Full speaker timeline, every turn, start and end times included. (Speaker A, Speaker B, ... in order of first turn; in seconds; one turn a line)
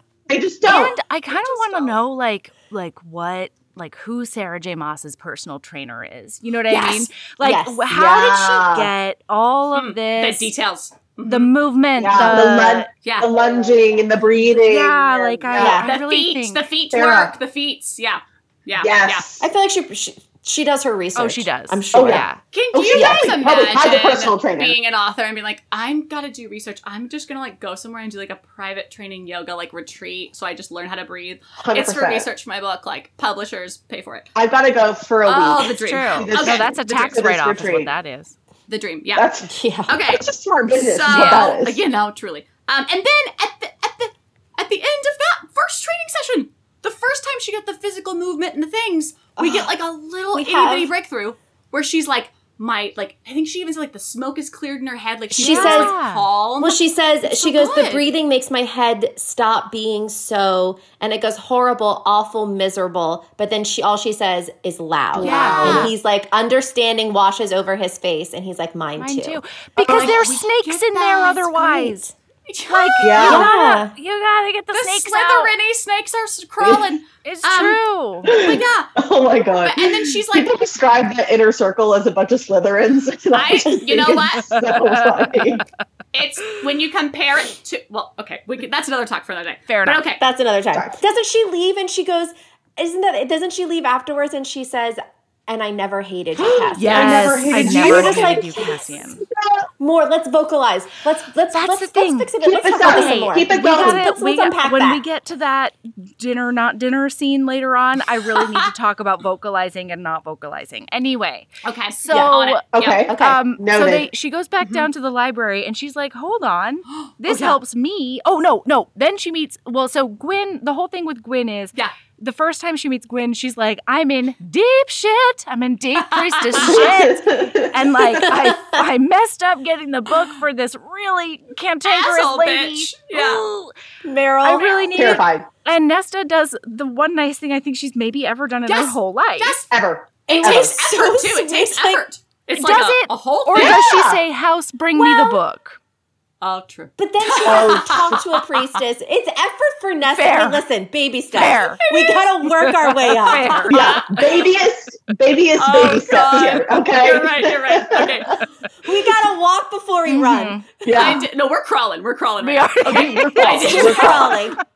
Speaker A: 0.3-1.0
Speaker B: 0.6-10.5
Speaker C: 1.3-1.9
Speaker C: 6.7-7.1
Speaker D: 7.4-7.8
Speaker A: 7.9-8.9
Speaker C: 9.7-11.5
Speaker B: 11.2-12.9
Speaker A: 12.0-15.8
Speaker D: 12.1-12.4
Speaker C: 13.0-13.3
Speaker B: 14.5-16.6
Speaker D: 15.5-15.9
Speaker C: 15.8-19.2
Speaker A: 16.9-17.3
Speaker A: 18.8-19.4
Speaker D: 19.4-22.3
Speaker B: 21.1-22.4
Speaker A: 21.9-24.8
Speaker C: 22.5-34.2
Speaker D: 22.9-23.4
Speaker A: 31.6-32.3
Speaker A: 34.4-37.9
Speaker C: 35.2-37.1
Speaker B: 35.8-38.3
Speaker C: 38.7-39.3
Speaker A: 39.1-39.5
Speaker D: 39.4-40.0
Speaker C: 39.9-58.1
Speaker A: 40.1-41.8
Speaker B: 41.1-41.5
Speaker D: 49.4-49.7
Speaker D: 50.3-50.9
Speaker D: 55.3-55.9
Speaker B: 55.4-56.2
Speaker D: 56.6-69.4
Speaker A: 65.1-65.9
Speaker B: 65.2-65.9
Speaker C: 65.2-65.9
Speaker B: 69.0-72.1
Speaker C: 69.8-71.8
Speaker D: 71.6-72.1
Speaker C: 72.5-73.4
Speaker B: 72.7-75.5
Speaker A: 73.0-73.5
Speaker D: 73.2-73.9
Speaker C: 74.7-78.9
Speaker A: 76.6-76.9
Speaker B: 77.2-78.4
Speaker A: 78.2-85.6
Speaker C: 79.6-80.5
Speaker C: 83.3-84.6
Speaker B: 84.5-85.6
Speaker C: 86.1-90.2
Speaker B: 89.7-90.0
Speaker D: 90.2-98.8
Speaker A: 96.3-99.7
Speaker B: 96.8-99.2
Speaker D: 99.8-105.0
Speaker B: 101.5-133.7
Speaker A: 102.4-104.0
Speaker C: 108.3-108.7
Speaker C: 111.6-113.0
Speaker D: 112.1-112.4
Speaker A: 112.7-114.1
Speaker D: 113.1-113.4
Speaker C: 114.6-114.9
Speaker C: 116.9-117.6
Speaker C: 126.1-126.8
Speaker A: 126.6-128.3
Speaker D: 128.3-128.8
Speaker C: 131.8-133.4
Speaker D: 134.0-134.8
Speaker B: 134.4-139.5
Speaker A: 134.9-135.5
Speaker C: 138.7-139.7
Speaker A: 139.7-140.8
Speaker C: 140.3-144.0
Speaker D: 140.3-142.0
Speaker B: 142.6-145.8
Speaker A: 143.6-144.2
Speaker C: 144.9-145.4
Speaker C: 146.4-148.6
Speaker D: 147.0-153.7
Speaker A: 147.4-148.2
Speaker B: 150.1-150.6
Speaker B: 151.3-151.8
Speaker C: 151.7-152.3
Speaker B: 152.7-153.8
Speaker C: 153.1-154.5
Speaker A: 153.7-158.3
Speaker C: 155.6-158.4
Speaker D: 158.8-160.6
Speaker B: 160.1-161.1
Speaker A: 160.8-161.2
Speaker C: 160.9-164.4
Speaker B: 162.4-164.3
Speaker A: 162.9-164.4
Speaker D: 163.6-164.6